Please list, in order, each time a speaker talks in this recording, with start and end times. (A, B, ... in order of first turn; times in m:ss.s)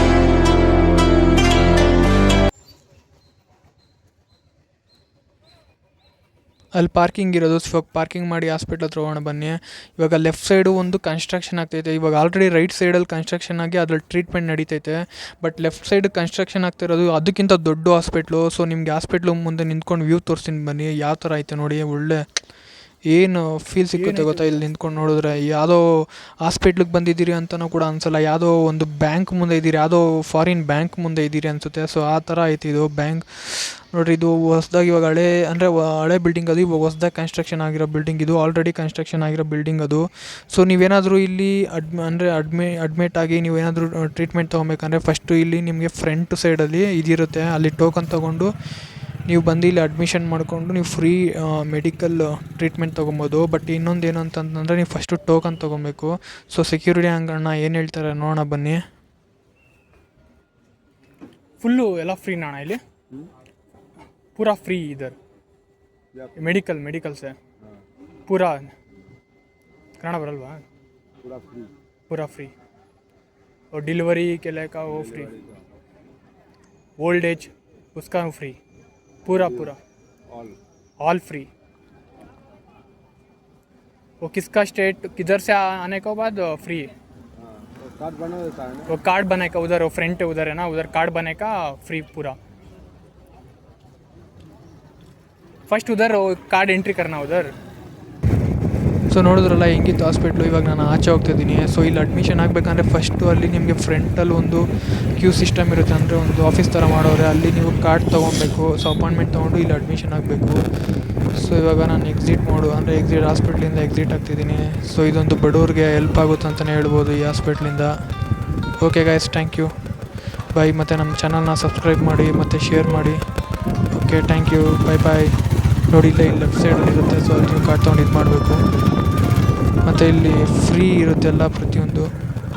0:06.7-0:22.5 A
0:23.0-0:48.5 A
0:23.9-0:24.7 B
0:49.3-0:58.8 A
1:01.6-1:02.8 B
1:04.4-1:05.2 B
1:06.4-1:07.4 B
1:08.3-1:08.7 B
1:10.0-1:10.6 B
1:11.2-1:11.7 C
1:12.1-1:12.5 B
1:13.7-1:15.3 B
1:14.9-1:15.6 C
1:17.0-1:18.6 B
1:19.2-1:19.8 B
1:19.3-1:19.7 C
1:20.3-1:20.6 C
1:21.0-1:21.5 B
1:24.2-1:26.9 B
1:27.4-1:28.9 C
1:28.9-1:32.4 B
1:35.7-1:37.6 B
1:39.1-1:58.0 A
1:58.8-1:59.7 A
2:00.5-2:03.2 A
2:03.9-2:08.7 A
2:09.8-2:12.1 A